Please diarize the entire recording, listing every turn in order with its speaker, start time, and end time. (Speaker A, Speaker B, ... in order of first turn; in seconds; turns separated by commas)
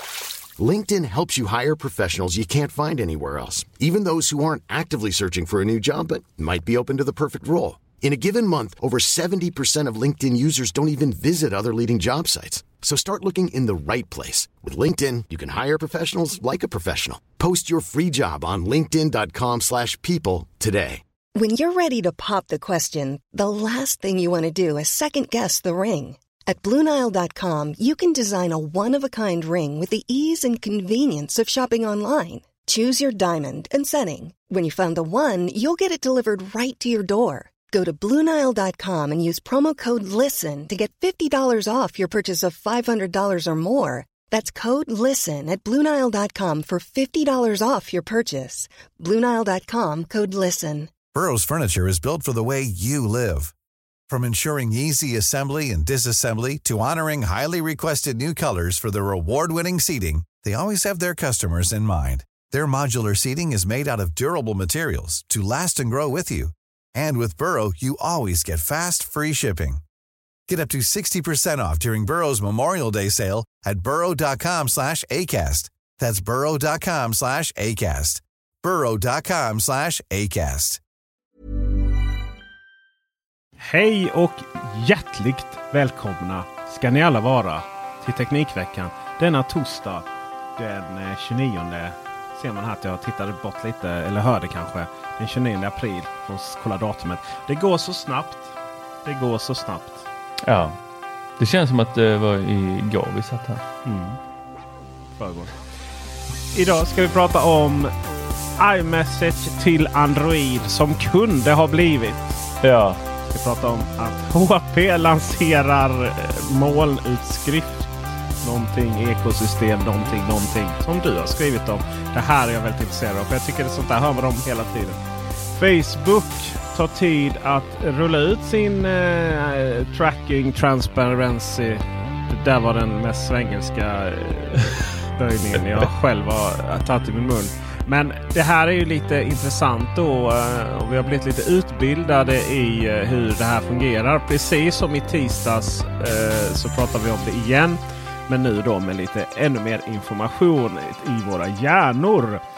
Speaker A: 0.6-21.0, Speaker B: 21.4-50.9, Speaker C: 51.1-53.5, Speaker C: 54.1-69.8, Speaker C: 70.5-80.8, Speaker D: 83.6-100.0, Speaker E: 100.4-100.8, Speaker E: 101.4-103.6, Speaker D: 103.8-104.2, Speaker D: 105.2-105.5, Speaker D: 106.5-107.9, Speaker D: 108.6-112.4, Speaker E: 112.6-113.0, Speaker D: 113.2-152.4